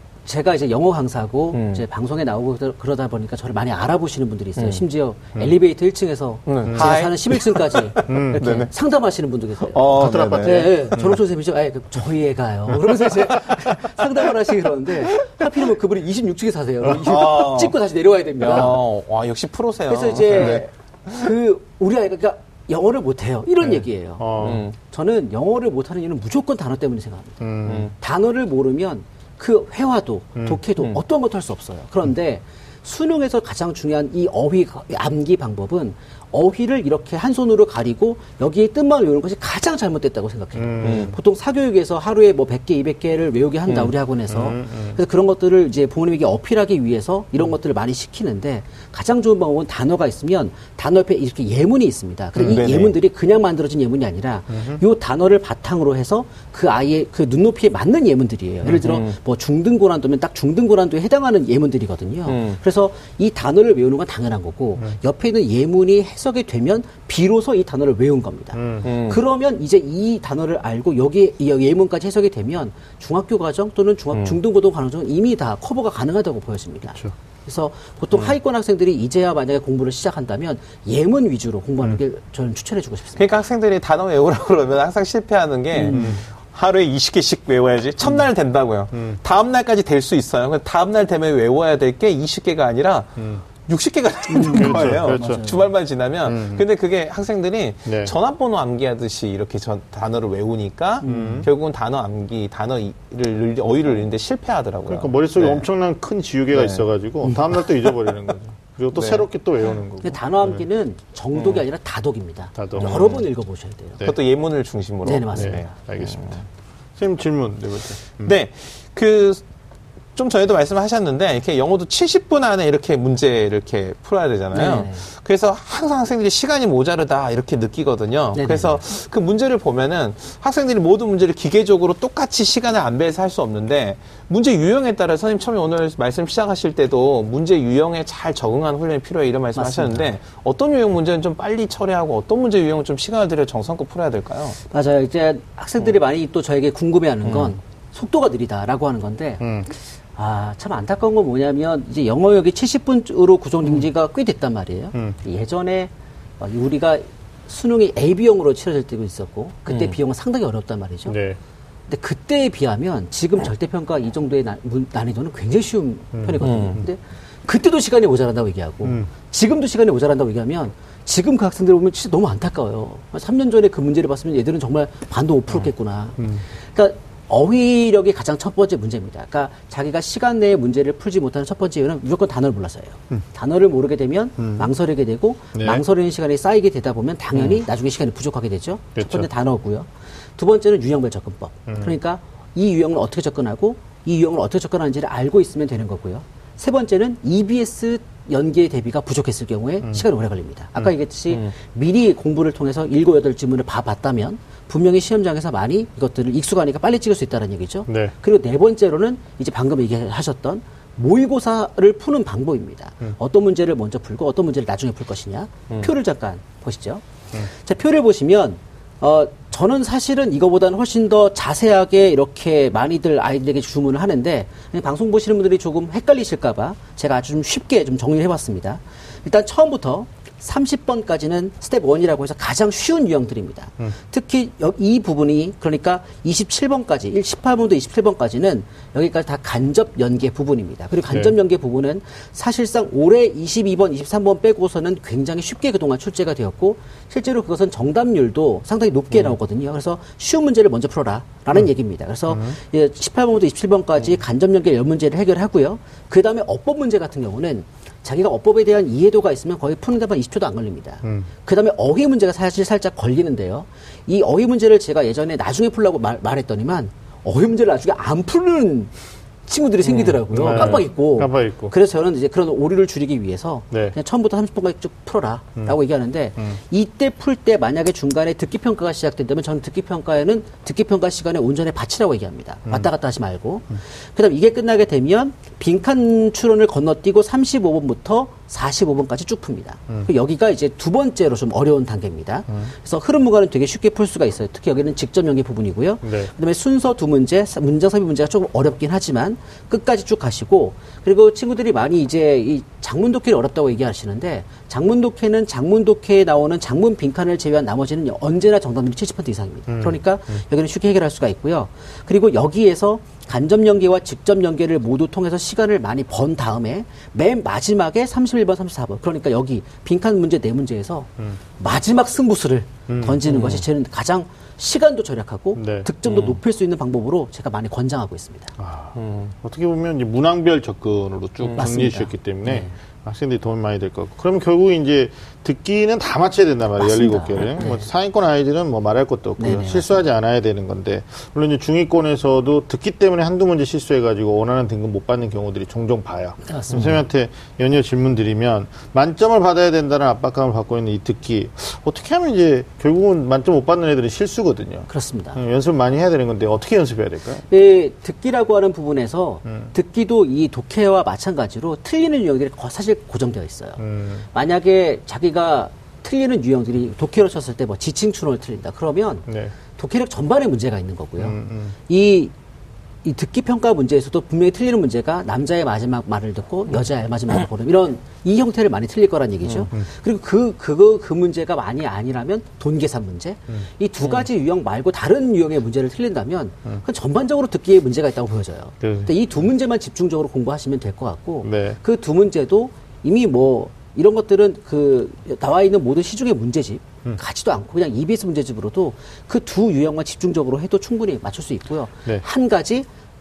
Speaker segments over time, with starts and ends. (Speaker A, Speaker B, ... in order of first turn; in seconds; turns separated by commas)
Speaker A: 0.2-18.8, Speaker B: 1.5-1.8, Speaker B: 4.6-4.8, Speaker B: 6.5-8.7, Speaker C: 6.7-7.0, Speaker C: 8.0-8.4, Speaker B: 9.7-10.8, Speaker C: 10.0-11.2, Speaker B: 13.1-13.8, Speaker B: 16.9-17.8, Speaker B: 18.4-21.3, Speaker A: 19.9-27.4, Speaker C: 24.2-24.6, Speaker B: 24.4-24.7, Speaker C: 27.4-27.9, Speaker A: 28.0-83.3, Speaker C: 30.4-30.6, Speaker C: 40.5-41.1, Speaker B: 40.8-41.1, Speaker C: 44.3-45.0, Speaker B: 52.4-52.9, Speaker C: 54.5-54.8, Speaker B: 58.6-59.2, Speaker B: 62.2-62.6, Speaker C: 68.5-68.9, Speaker B: 68.8-69.2, Speaker B: 83.2-105.6, Speaker A: 85.7-86.2, Speaker C: 85.9-86.2, Speaker C: 88.9-89.2, Speaker C: 93.2-93.4, Speaker A: 94.3-95.6, Speaker C: 94.5-95.4, Speaker C: 96.2-96.6, Speaker C: 97.8-98.1, Speaker A: 101.0-101.5, Speaker C: 101.0-101.5, Speaker C: 104.9-110.6, Speaker B: 106.5-106.8, Speaker A: 107.2-107.5, Speaker B: 108.9-109.2, Speaker A: 110.0-114.0, Speaker B: 111.3-111.6, Speaker C: 112.5-113.2, Speaker B: 112.8-113.2, Speaker B: 114.0-116.4, Speaker A: 115.0-115.7, Speaker C: 115.3-116.4, Speaker C: 117.0-118.3, Speaker B: 118.2-119.4, Speaker B: 120.2-144.6, Speaker A: 124.5-125.0, Speaker A: 128.3-128.8, Speaker A: 139.6-140.1, Speaker A: 144.7-161.2, Speaker B: 147.2-147.5, Speaker C: 149.4-149.7, Speaker B: 159.7-160.0, Speaker C: 161.1-161.4, Speaker A: 161.9-268.9, Speaker C: 166.1-166.4, Speaker B: 166.4-166.8, Speaker C: 168.8-169.1, Speaker C: 176.2-176.4, Speaker C: 184.4-184.7, Speaker C: 185.5-185.8, Speaker C: 188.9-189.3, Speaker C: 191.7-191.9, Speaker C: 207.9-208.1, Speaker C: 241.1-241.3, Speaker C: 252.3-252.6, Speaker A: 269.5-328.5, Speaker B: 269.9-270.8, Speaker C: 270.3-271.7, Speaker C: 273.7-273.9, Speaker C: 296.0-296.3, Speaker C: 309.7-310.0, Speaker C: 322.9-323.2, Speaker B: 323.3-323.6, Speaker C: 325.5-325.9, Speaker B: 326.0-326.4, Speaker C: 328.6-357.4, Speaker B: 328.9-329.3, Speaker B: 331.4-331.7, Speaker A: 331.6-332.7, Speaker A: 336.8-337.9, Speaker A: 339.4-340.0, Speaker A: 346.5-347.0, Speaker A: 354.9-355.4, Speaker A: 357.5-363.8, Speaker C: 363.8-364.2, Speaker A: 364.3-372.3, Speaker C: 369.3-369.5, Speaker C: 371.2-371.7, Speaker A: 373.0-402.9, Speaker C: 388.8-389.1, Speaker C: 391.4-391.8